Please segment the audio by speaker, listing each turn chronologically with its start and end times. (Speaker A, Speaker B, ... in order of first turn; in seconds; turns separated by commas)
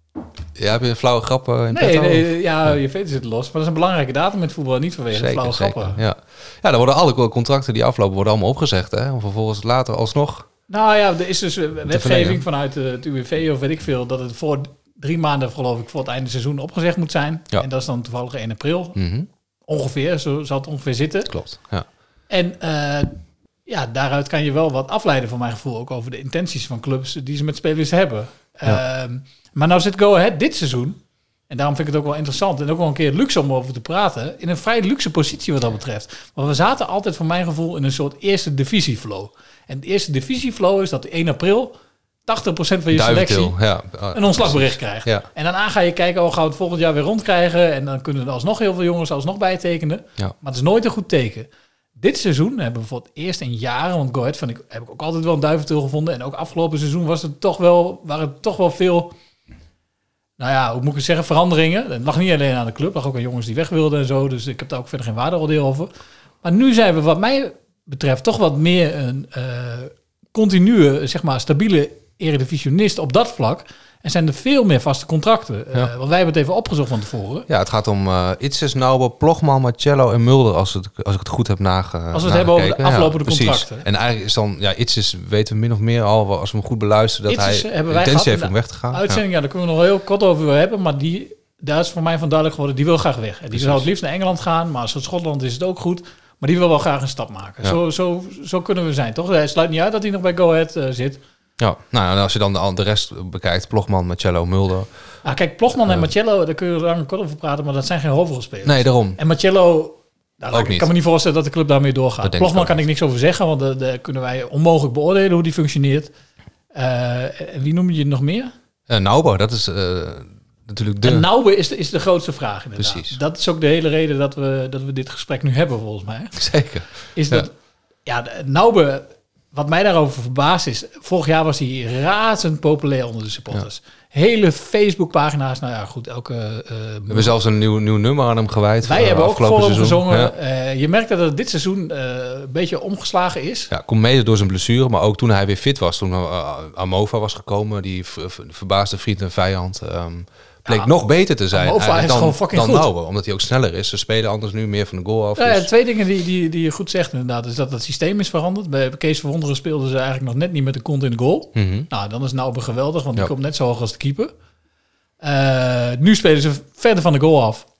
Speaker A: 0.6-2.8, Speaker B: 1.7-6.0, Speaker A: 5.1-10.5, Speaker B: 10.7-19.0, Speaker A: 11.9-12.4, Speaker A: 18.9-19.3, Speaker B: 19.7-21.3, Speaker A: 21.2-21.9, Speaker B: 22.3-41.7, Speaker B: 42.3-43.6, Speaker A: 42.9-45.2, Speaker B: 44.1-59.1, Speaker B: 60.4-65.9, Speaker B: 66.4-77.5, Speaker A: 77.5-89.2, Speaker B: 82.1-83.8, Speaker B: 87.3-101.2, Speaker A: 93.5-93.8, Speaker A: 101.6-104.9, Speaker B: 105.2-116.1, Speaker A: 108.6-109.2, Speaker A: 110.5-110.9, Speaker A: 112.2-112.7, Speaker B: 116.7-118.5, Speaker A: 118.9-121.3, Speaker B: 121.0-126.4, Speaker A: 122.8-123.2, Speaker A: 126.3-127.5, Speaker B: 127.1-127.5, Speaker B: 128.1-137.3, Speaker A: 137.1-140.3, Speaker B: 138.8-143.7, Speaker A: 143.7-155.7, Speaker B: 150.7-150.9, Speaker B: 151.5-152.9, Speaker B: 155.4-164.3, Speaker A: 161.5-161.9, Speaker B: 165.2-167.7